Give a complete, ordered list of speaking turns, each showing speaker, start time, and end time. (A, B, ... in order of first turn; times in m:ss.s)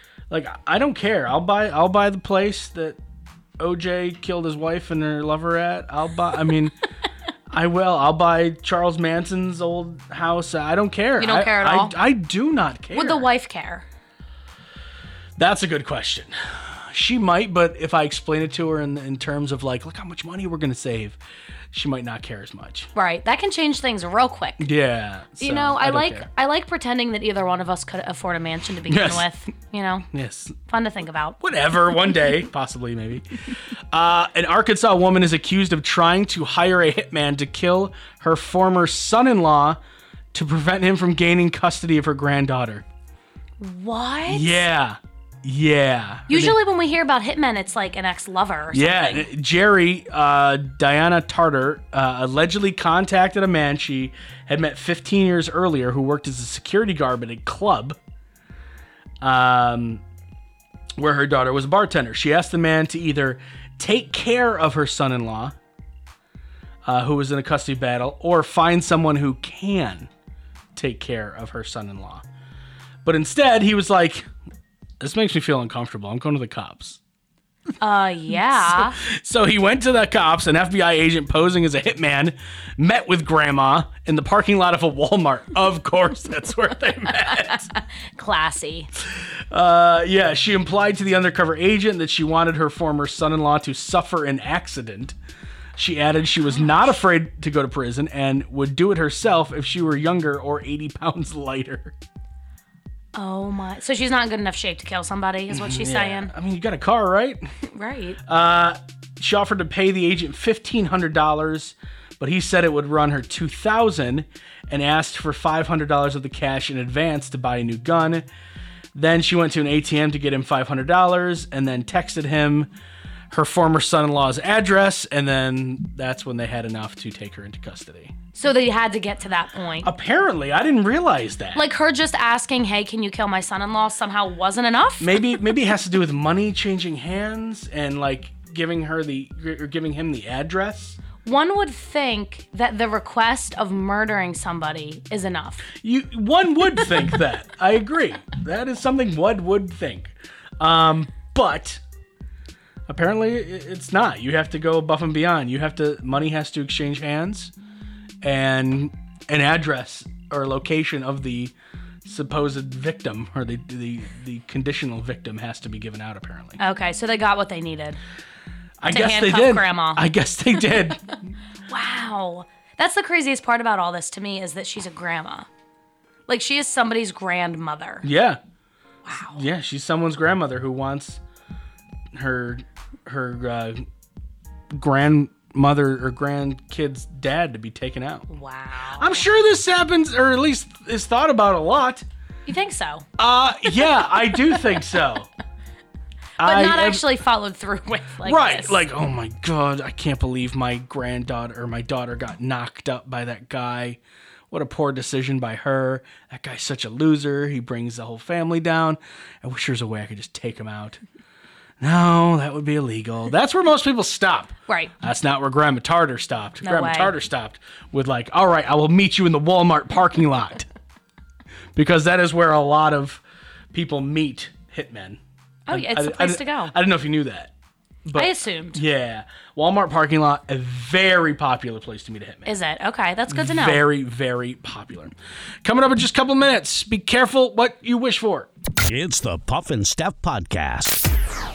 0:00.3-0:03.0 A
0:03.6-0:06.7 A
0:07.5-0:13.3 A
0:11.2-0:11.9 B
0:12.9-0:13.8 B
0:15.4-0:21.2 A
0:21.7-0:22.9 A
0:22.9-0:24.7 B
0:24.6-0:26.3 A
0:25.4-0:30.1 B
0:28.9-0:29.2 A
0:30.1-0:30.6 A
0:30.7-0:31.4 B
0:31.4-0:39.8 A
0:40.3-0:42.8 A
0:43.6-0:44.6 B
0:44.3-0:46.6 A
0:46.3-0:49.3 B
0:48.7-0:58.0 A
0:59.2-1:00.0 A
1:01.0-1:05.6 A
1:06.8-1:10.1 A
1:10.7-1:12.2 A
1:13.0-1:14.3 A
1:15.0-1:17.0 A
1:17.8-1:19.0 B
1:18.5-1:27.7 A
1:27.4-1:28.9 B
1:29.5-1:35.2 A
1:35.8-1:41.9 A
1:43.1-1:46.3 B
1:45.5-1:47.5 A
1:47.7-1:48.2 B
1:48.3-1:58.2 A
1:58.9-2:02.7 A
2:03.3-2:08.1 A
2:08.4-2:09.9 B
2:09.8-2:11.6 A
2:11.5-2:15.2 B
2:15.0-2:21.0 A
2:21.2-2:25.6 B
2:25.8-2:31.8 A
2:32.9-2:37.5 A
2:38.2-2:41.5 A
2:42.0-2:46.6 A
2:46.6-2:48.0 B
2:48.8-2:51.0 A
2:48.8-2:50.0 B
2:51.7-2:55.5 B
2:56.3-2:58.0 B
2:58.0-2:58.4 A
2:59.0-2:59.4 B
2:59.3-3:01.2 A
3:02.1-3:03.8 A
3:04.7-3:08.3 A
3:08.3-3:09.2 B
3:09.0-3:12.0 A
3:12.4-3:13.0 B
3:13.2-3:15.3 A
3:16.4-3:17.0 A
3:16.4-3:18.8 B
3:18.2-3:24.0 A
3:24.5-3:31.0 A
3:31.8-3:40.7 A
3:36.6-3:37.1 B
3:41.7-3:45.2 A
3:45.7-3:46.7 B
3:45.7-3:47.5 A
3:48.0-3:52.5 A
3:48.1-3:48.8 B
3:52.4-3:53.8 B
3:53.3-3:58.5 A
3:58.8-4:01.1 C